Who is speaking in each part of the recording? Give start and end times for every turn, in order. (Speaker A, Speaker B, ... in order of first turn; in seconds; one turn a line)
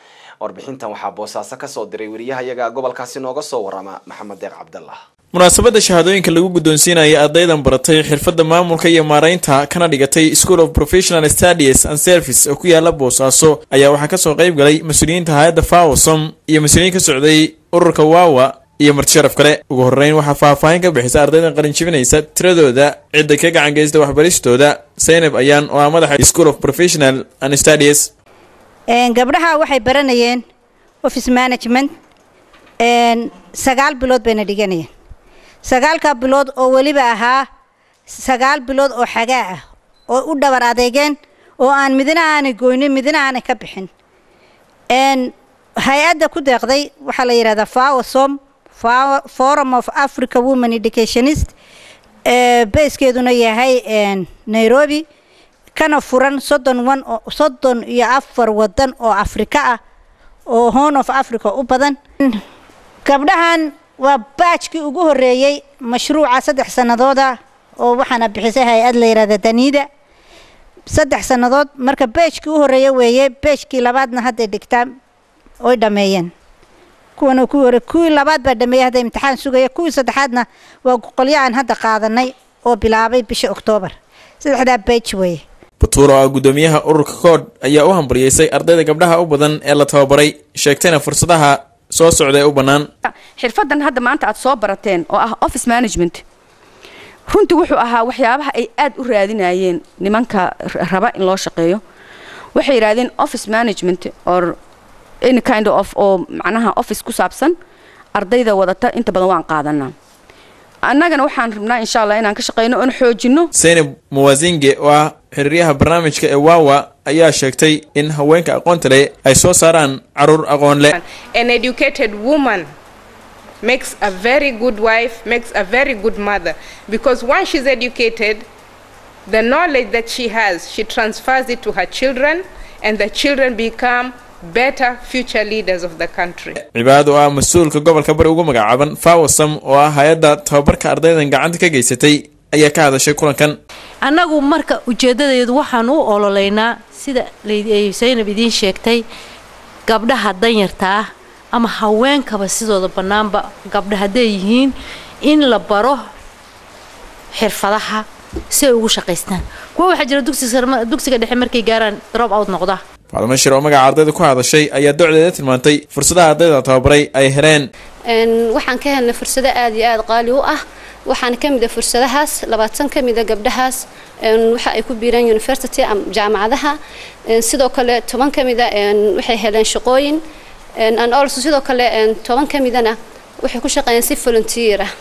Speaker A: 0.4-5.0
Speaker B: 5.3-28.1
Speaker C: 28.9-30.4
Speaker C: 31.0-31.9
Speaker C: 32.8-34.9
Speaker C: 35.6-37.5
Speaker C: 38.1-43.9
Speaker C: 44.9-45.3
Speaker C: 45.9-51.5
Speaker C: 52.3-55.0
Speaker C: 55.8-59.8
Speaker C: 60.5-62.4
Speaker C: 63.0-69.9
Speaker C: 70.9-75.0
Speaker C: 75.6-76.3
Speaker C: 77.2-85.4
Speaker B: 85.8-92.9
Speaker D: 93.0-96.2
Speaker D: 97.3-101.8
Speaker D: 102.5-104.5
Speaker D: 105.2-107.5
Speaker D: 108.2-109.9
Speaker D: 110.8-113.5
Speaker B: 113.6-120.9
Speaker E: 121.0-122.7
Speaker E: 123.6-128.4
Speaker E: 129.3-136.5
Speaker B: 136.7-143.6
Speaker F: 144.0-149.1
Speaker F: 149.9-156.1
Speaker F: 157.3-162.8
Speaker B: 163.1-167.7
Speaker G: 168.1-176.7
Speaker G: 177.3-180.2
Speaker G: 180.8-184.9